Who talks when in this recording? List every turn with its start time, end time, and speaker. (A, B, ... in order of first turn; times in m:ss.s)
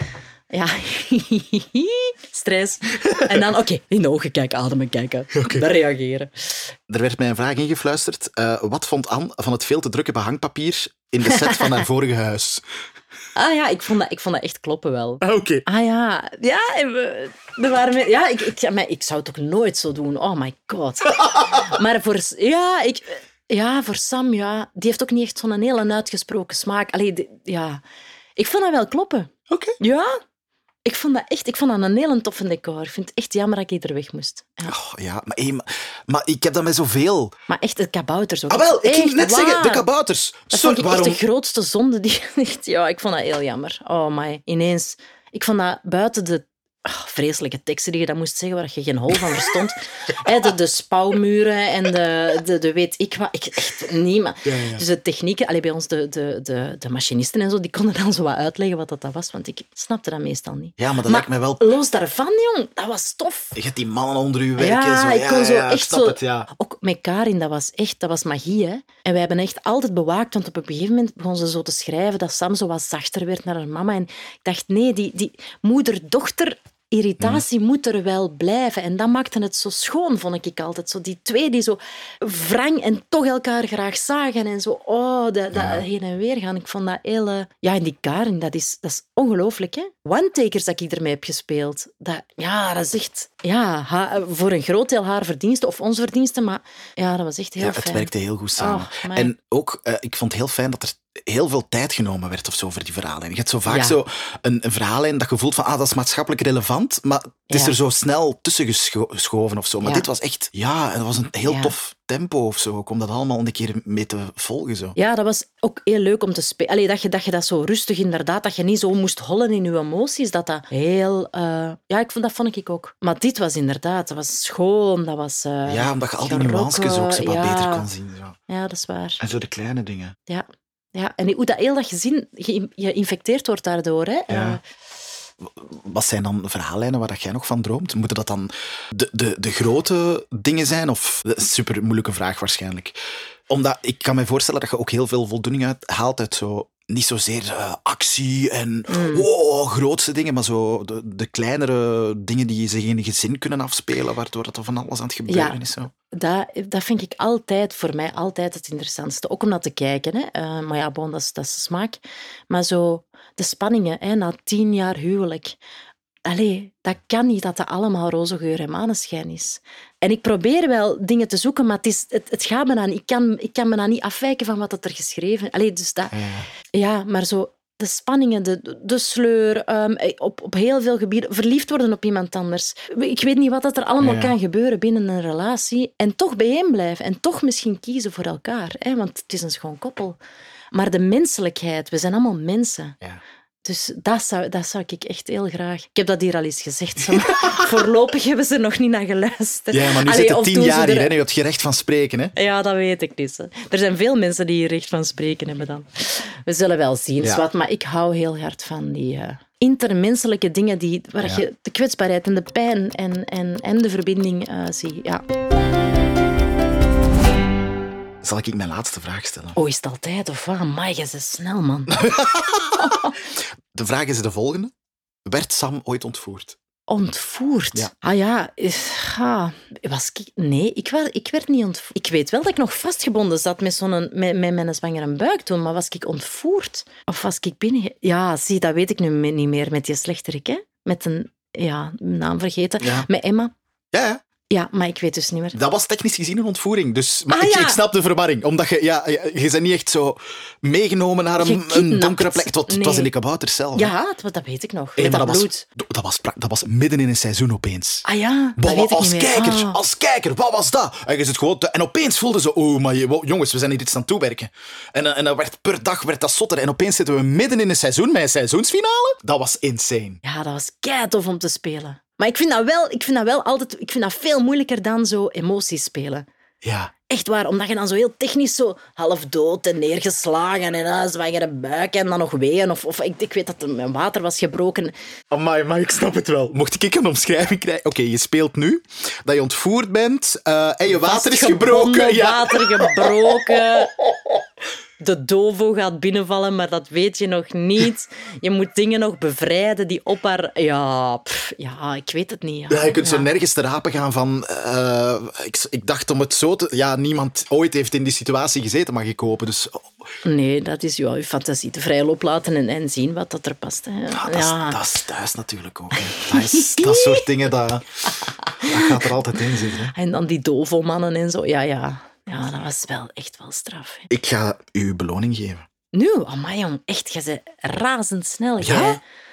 0:00.5-0:06.5 A
0:05.4-0:05.6 B
0:06.9-0:12.6 B
0:11.3-0:11.8 A
0:13.4-0:27.8 A
0:15.2-0:15.6 B
0:28.4-0:30.2 A
0:29.5-0:29.8 B
0:30.8-0:34.7 A
0:34.6-0:37.4 B
0:37.5-0:39.8 A
0:38.5-0:41.2 B
0:40.5-1:03.6 A
0:54.4-0:54.8 B
1:00.8-1:01.7 B
1:03.5-1:06.5 B
1:04.6-1:39.3 A
1:17.2-1:17.4 B
1:25.5-1:25.8 B
1:37.6-1:55.0 B
1:43.7-1:44.0 A
1:51.4-1:51.7 A
1:55.0-2:07.9 A
2:05.6-2:08.4 B
2:08.5-2:09.2 A
2:09.2-2:10.2 B
2:10.3-2:14.6 A
2:14.3-2:14.6 B
2:15.4-2:23.0 B
2:23.5-2:35.9 B
2:28.9-2:29.3 A
2:35.3-2:35.6 A
2:36.1-2:45.6 A
2:46.2-2:56.2 A
2:56.1-2:56.4 B
2:56.7-3:10.2 A
3:04.0-3:04.3 B
3:10.7-3:13.0 A
3:13.6-3:21.1 A
3:17.1-3:17.7 B
3:19.7-3:22.3 B
3:22.4-3:35.2 A
3:38.2-3:39.6 B
3:39.6-3:42.1 A
3:41.9-3:43.0 B
3:42.7-3:43.1 A
3:43.7-3:44.7 B
3:45.2-3:46.6 B
3:46.9-4:03.5 A
4:02.8-4:03.1 B
4:03.9-4:04.2 B
4:04.5-4:05.6 A
4:05.5-4:13.9 B
4:07.3-4:07.8 A
4:11.4-4:13.1 A
4:13.7-4:15.6 A
4:15.0-4:18.0 B
4:18.0-4:19.8 A
4:18.6-4:30.2 B
4:30.2-4:36.2 A
4:36.6-4:36.9 B
4:37.1-4:44.9 A
4:45.3-4:53.6 B
4:50.9-4:53.9 A
4:55.0-5:03.3 A
5:02.7-5:09.9 B
5:10.2-5:14.8 A
5:14.1-5:19.9 B
5:15.9-5:17.2 A
5:18.4-5:19.1 A
5:19.9-5:24.1 A
5:24.1-5:25.6 B
5:25.9-5:29.0 A
5:28.6-5:29.0 B